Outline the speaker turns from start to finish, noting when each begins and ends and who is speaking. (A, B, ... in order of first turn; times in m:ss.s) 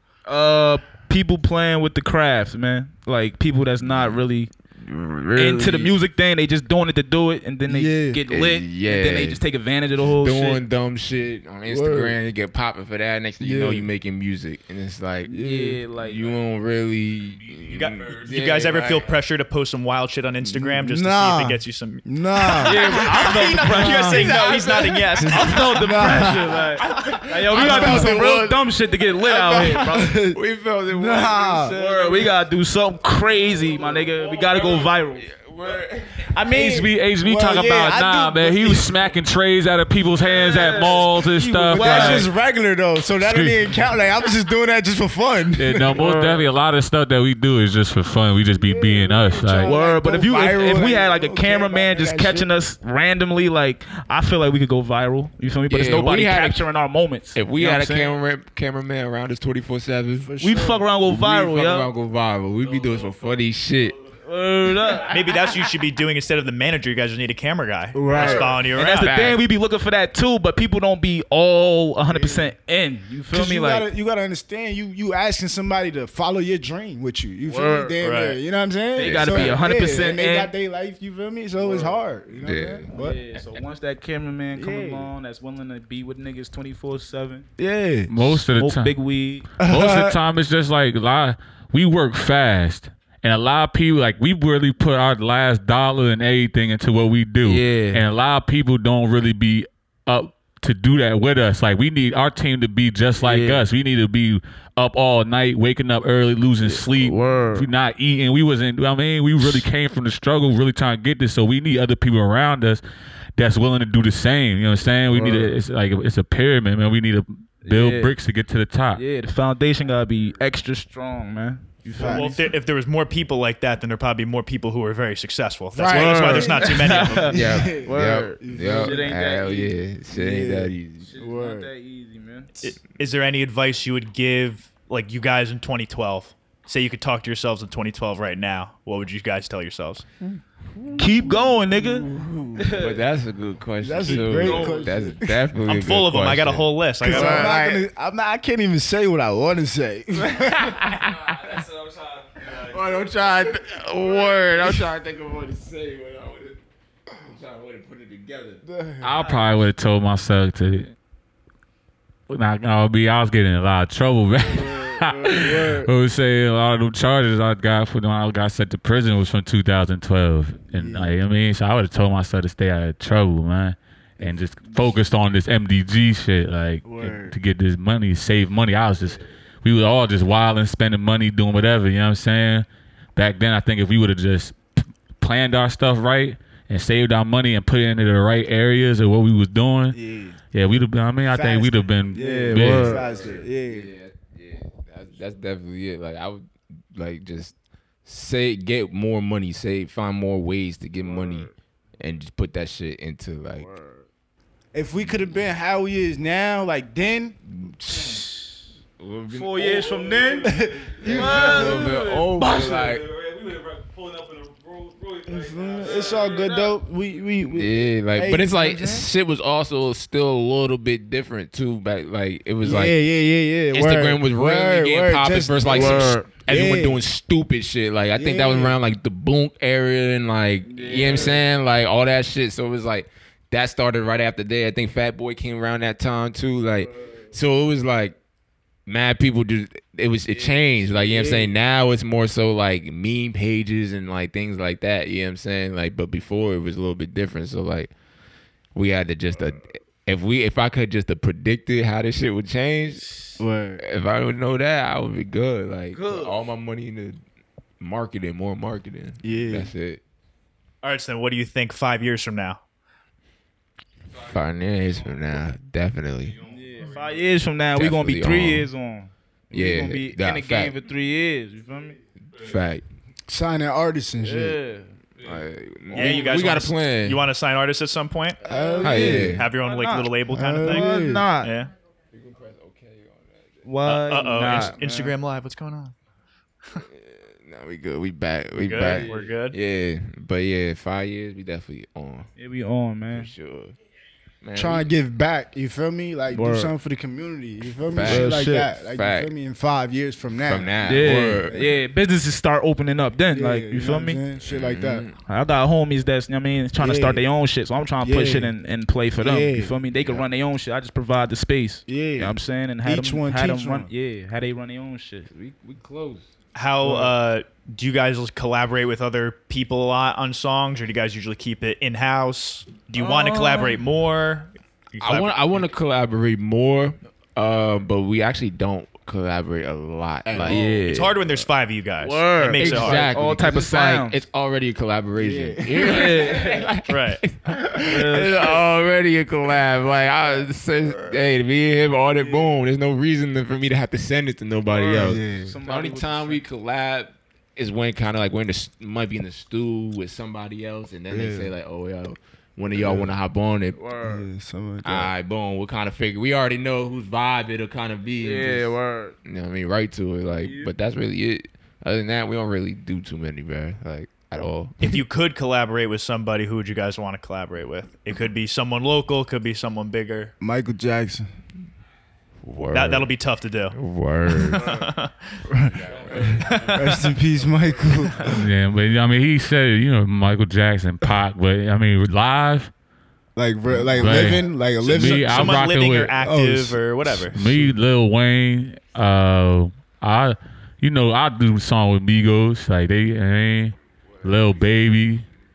0:00.3-0:04.5 A
0:03.8-0:04.2 B
0:04.8-0:06.0 B
0:05.4-0:10.6 A
0:07.7-0:08.2 C
0:08.3-0:09.4 B
0:10.0-0:15.3 B
0:11.7-0:12.2 C
0:13.4-0:13.9 C
0:15.3-0:15.8 C
0:15.3-0:16.2 A
0:16.0-0:19.1 B
0:17.2-0:19.2 D
0:17.7-0:22.0 E
0:20.4-0:24.3 C
0:22.6-0:32.3 B
0:22.6-0:24.6 A
0:23.0-0:25.7 E
0:25.2-0:26.7 C
0:25.2-0:30.2 A
0:27.5-0:28.2 C
0:29.8-0:31.8 C
0:31.7-0:35.3 A
0:33.5-0:34.8 D
0:33.8-0:36.3 B
0:36.5-0:42.3 F
0:36.5-0:39.1 C
0:36.5-0:36.8 A
0:40.2-0:42.3 A
0:40.6-0:46.1 C
0:43.2-0:43.7 F
0:45.6-0:49.8 F
0:46.0-0:46.5 A
0:48.6-0:52.5 C
0:49.6-0:58.1 A
0:55.7-0:56.6 B
0:57.3-1:04.0 B
1:00.2-1:00.9 C
1:00.4-1:01.9 A
1:02.6-1:04.2 D
1:04.2-1:05.2 A
1:04.9-1:05.2 D
1:05.1-1:09.2 E
1:07.9-1:08.6 C
1:08.2-1:13.9 A
1:08.8-1:09.4 B
1:12.1-1:12.5 C
1:13.3-1:23.2 C
1:17.5-1:18.0 A
1:18.0-1:18.4 E
1:19.0-1:20.5 A
1:19.0-1:19.6 B
1:21.6-1:22.0 A
1:22.3-1:22.9 B
1:22.9-1:27.5 A
1:24.5-1:25.1 C
1:27.6-1:28.4 C
1:28.1-1:29.0 F
1:28.5-1:29.5 A
1:29.6-1:30.2 C
1:29.6-1:52.8 F
1:37.4-1:38.0 A
1:43.2-1:43.6 A
1:46.6-1:47.7 A
1:53.4-1:59.0 F
1:55.1-1:55.6 A
1:57.6-1:58.2 A
1:59.0-2:02.4 A
2:01.9-2:02.4 C
2:02.0-2:07.5 E
2:05.8-2:09.1 C
2:05.9-2:09.7 A
2:07.3-2:11.1 B
2:10.1-2:11.7 C
2:11.0-2:12.5 A
2:12.6-2:20.0 E
2:20.2-2:21.4 C
2:21.0-2:22.1 A
2:21.7-2:27.8 B
2:22.0-2:22.6 C
2:22.6-2:23.0 A
2:23.8-2:25.4 C
2:24.3-2:24.9 A
2:25.7-2:27.6 E
2:27.0-2:30.7 C
2:30.2-2:31.6 B
2:30.8-2:34.7 D
2:32.5-2:38.6 B
2:38.6-2:39.2 C
2:39.0-2:40.9 F
2:42.3-3:04.6 F
2:44.4-2:45.9 C
2:50.7-2:51.2 C
2:54.2-2:55.0 C
2:56.8-2:57.4 C
3:05.2-3:10.0 F
3:09.9-3:10.4 C
3:10.5-3:13.0 F
3:11.2-3:13.9 C
3:12.1-3:13.0 A
3:12.8-3:17.5 B
3:18.0-3:23.7 B
3:21.0-3:21.5 A
3:23.6-3:24.1 A
3:24.7-3:27.4 C
3:25.0-3:25.4 B
3:27.5-3:28.2 B
3:27.9-3:28.6 A
3:29.0-3:30.0 B
3:29.3-3:30.5 A
3:29.6-3:36.8 D
3:30.4-3:31.8 C
3:31.0-3:33.0 B
3:31.1-3:32.8 A
3:35.3-3:39.1 C
3:36.2-3:36.5 A
3:37.5-3:43.0 B
3:42.6-3:47.0 C
3:43.7-3:58.2 B
3:45.7-3:46.3 A
3:48.2-3:48.8 C
3:50.7-3:51.4 A
3:50.8-3:51.4 C
3:58.9-4:07.9 B
4:00.3-4:01.5 A
4:08.8-4:13.1 B
4:13.4-4:13.8 C
4:13.8-4:17.2 B
4:15.9-4:16.4 A
4:17.8-4:20.0 B
4:19.2-4:19.7 C
4:20.8-4:22.6 E
4:24.1-4:25.5 D
4:24.2-4:26.4 B
4:26.2-4:27.4 D
4:26.4-4:32.0 A
4:27.8-4:28.7 B
4:29.5-4:30.8 B
4:31.7-4:32.6 D
4:32.4-4:32.8 B
4:33.3-4:34.6 C
4:34.2-4:35.0 A
4:35.2-4:36.2 D
4:35.2-4:37.2 B
4:35.9-4:38.4 E
4:38.4-4:39.4 C
4:38.4-4:41.5 A
4:38.8-4:39.5 B
4:39.1-4:41.7 E
4:40.3-4:41.3 C
4:42.1-4:43.7 B
4:43.6-4:45.1 A
4:43.8-4:45.9 E
4:46.9-4:52.3 B
4:48.6-4:49.6 E
4:48.9-4:49.3 A
4:52.4-4:53.3 A
4:53.1-4:53.8 B
4:54.4-4:54.9 B
4:54.6-5:01.8 C
4:56.3-4:56.7 A
4:57.9-4:59.3 B
4:58.0-4:58.7 A
5:00.4-5:01.6 B
5:00.8-5:04.2 A
5:03.3-5:05.1 C
5:04.4-5:05.2 B
5:05.3-5:15.3 A
5:06.8-5:07.2 C
5:08.0-5:08.5 C
5:09.2-5:09.7 C
5:11.9-5:13.9 C
5:15.3-5:16.3 B
5:16.6-5:25.5 E
5:16.8-5:17.1 C
5:23.0-5:23.8 A
5:25.0-5:30.6 B
5:30.3-5:30.7 C
5:30.4-5:31.3 A
5:30.8-5:33.1 E
5:32.0-5:34.2 A
5:32.6-5:53.8 B
5:35.2-5:36.2 C
5:35.8-5:36.7 A
5:36.9-5:37.2 E
5:37.8-5:38.6 A
5:44.7-5:46.4 A
5:45.0-5:45.5 C
5:51.1-5:51.5 C
5:52.8-5:53.1 C
5:53.8-5:54.3 A
5:54.0-5:55.1 C
5:54.8-6:05.0 B
5:58.2-5:59.2 A
6:00.4-6:00.7 A
6:04.8-6:10.3 E
6:10.4-6:11.3 C
6:12.4-6:13.1 B
6:12.7-6:13.8 E
6:13.7-6:14.7 B
6:14.4-6:14.7 C
6:14.6-6:15.4 E
6:15.5-6:18.5 C
6:15.7-6:18.3 D
6:15.7-6:16.6 B
6:16.4-6:17.1 E
6:18.2-6:22.7 F
6:23.4-6:25.6 C
6:23.8-6:24.4 B
6:24.0-6:26.2 F
6:24.8-6:27.6 E
6:26.2-6:26.8 C
6:27.2-6:35.3 F